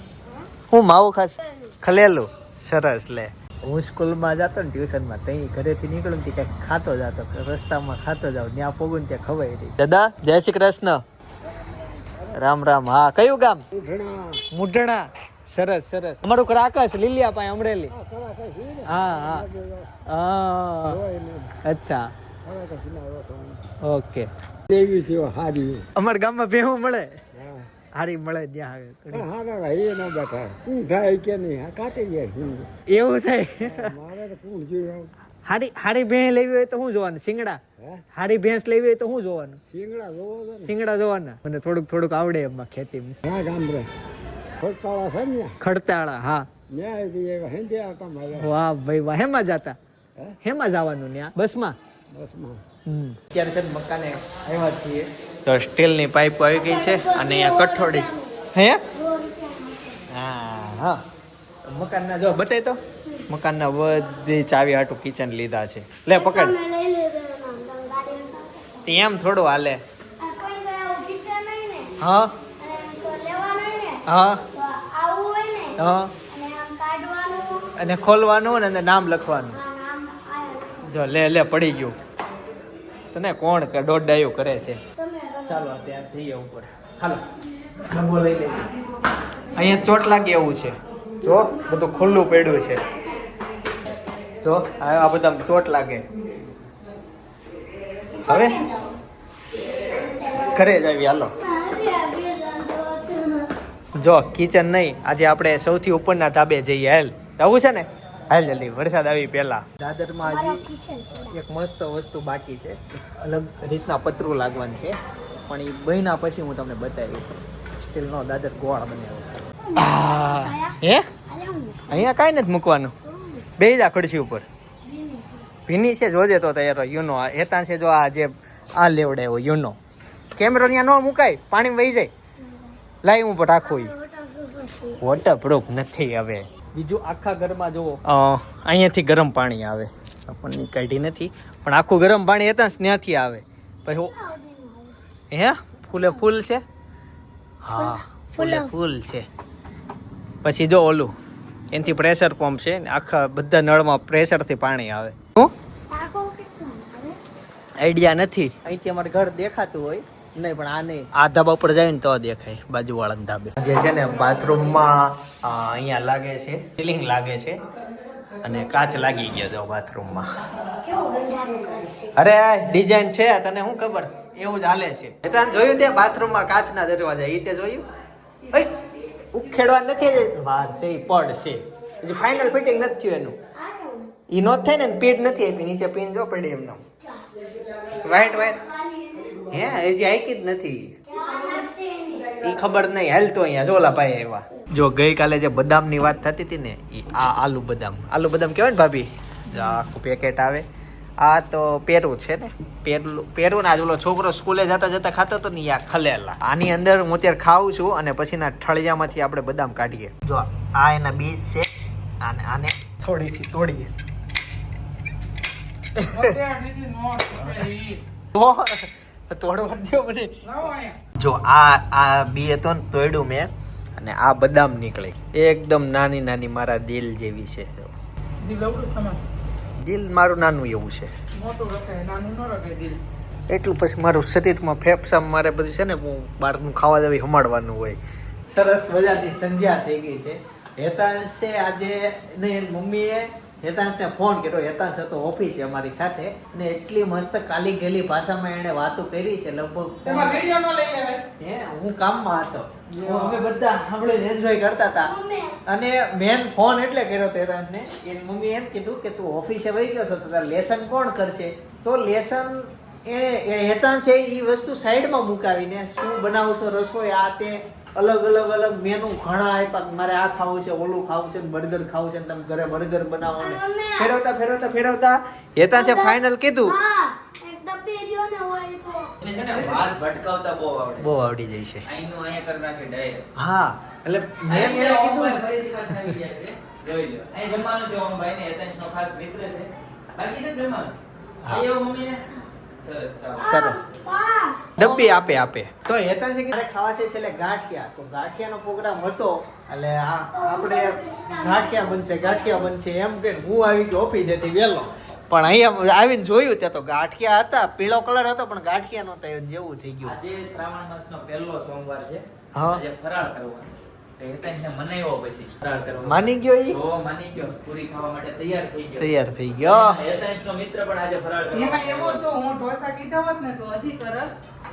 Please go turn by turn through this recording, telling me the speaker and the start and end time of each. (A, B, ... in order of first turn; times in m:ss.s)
0:00.7-0:11.0 A
0:11.5-0:12.4 B
0:12.3-0:13.6 A
0:13.7-0:14.4 B
0:14.5-0:17.9 A
0:17.9-0:20.0 B
0:18.9-0:19.4 A
0:20.1-0:21.0 A
0:20.9-0:21.6 B
0:21.6-0:22.1 A
0:22.4-0:23.7 B
0:23.8-0:24.3 A
0:24.7-0:25.9 B
0:25.9-0:27.1 A
0:27.3-0:27.7 B
0:28.0-0:29.3 A
0:29.1-0:32.7 B
0:32.9-0:33.9 A
0:33.6-0:35.1 B
0:35.4-0:37.6 A
0:37.8-0:38.0 B
0:38.1-0:39.6 A
0:39.7-0:40.7 B
0:40.6-0:43.2 A
0:43.2-0:43.9 B
0:44.6-0:45.6 B
0:45.6-0:46.5 A
0:46.7-0:48.5 B
0:48.4-0:49.8 A
0:50.4-0:51.8 A
0:52.1-0:52.6 B
0:52.9-0:58.8 A
0:56.5-1:00.0 C
1:00.1-1:01.0 A
1:01.7-1:06.5 A
1:06.1-1:08.9 C
1:08.8-1:09.8 A
1:10.2-1:11.9 C
1:12.0-1:12.3 A
1:12.6-1:15.8 C
1:14.1-1:14.4 A
1:15.8-1:16.1 A
1:16.3-1:17.7 C
1:17.8-1:19.6 A
1:19.5-1:20.9 C
1:20.8-1:22.0 A
1:23.1-1:24.8 A
1:25.0-1:25.7 C
1:25.4-1:27.2 A
1:27.9-1:28.6 A
1:29.5-1:32.8 A
1:32.0-1:32.2 C
1:32.8-1:33.2 C
1:34.4-1:36.0 A
1:38.1-1:39.0 C
1:38.2-1:38.6 A
1:40.1-1:40.8 C
1:40.5-1:41.3 A
1:41.4-1:43.5 C
1:44.0-1:50.6 A
1:50.2-1:51.4 C
1:51.3-1:55.0 A
1:55.5-2:01.1 A
1:59.6-2:02.1 C
2:01.9-2:02.9 A
2:03.0-2:03.4 C
2:03.6-2:04.4 A
2:04.8-2:05.5 C
2:05.7-2:09.8 A
2:10.4-2:12.1 A
2:12.4-2:12.8 C
2:13.0-2:13.9 A
2:13.6-2:15.0 C
2:15.0-2:24.1 A
2:23.9-2:25.0 C
2:25.3-2:26.6 A
2:27.6-2:29.2 A
2:27.8-2:28.7 C
2:30.4-2:31.1 A
2:31.7-2:35.5 A
2:35.9-2:37.2 C
2:37.8-2:47.6 A
2:48.4-2:50.3 A
2:50.8-2:52.1 C
2:52.1-2:57.8 A
2:59.3-3:03.4 A
3:03.5-3:04.1 C
3:04.3-3:06.8 A
3:08.0-3:08.6 A
3:08.1-3:09.4 C
3:09.5-3:11.0 A
3:11.1-3:12.3 C
3:11.1-3:11.6 D
3:12.4-3:20.6 A
3:21.2-3:31.7 A
3:32.2-3:33.9 A
3:36.0-3:36.3 A
3:36.1-3:38.0 D
3:38.3-3:40.4 A
3:40.4-3:41.0 D
3:41.2-3:47.9 A
3:48.4-3:49.2 D
3:49.8-3:51.1 A
3:51.4-3:53.0 D
3:53.5-3:58.0 A
3:58.5-4:10.4 A
4:10.0-4:11.2 D
4:11.4-4:15.1 A
4:12.9-4:13.4 D
4:15.0-4:15.6 C
4:15.6-4:36.8 A
4:33.4-4:34.1 C
4:35.7-4:39.1 C
4:39.2-4:41.1 E
4:39.6-4:39.8 D
4:41.0-4:41.8 A
4:41.8-4:43.2 E
4:43.4-4:45.0 A
4:44.5-4:51.0 E
4:45.0-4:45.4 D
4:51.5-4:52.2 E
4:52.8-4:53.6 E
4:53.4-4:54.6 C
4:53.4-4:53.8 A
4:54.8-5:10.2 A
4:54.8-4:55.2 E
5:00.3-5:02.7 C
5:10.0-5:19.1 E
5:12.5-5:12.8 A
5:16.0-5:16.8 A
5:19.0-5:20.0 A
5:19.6-5:22.2 E
5:21.5-5:24.3 D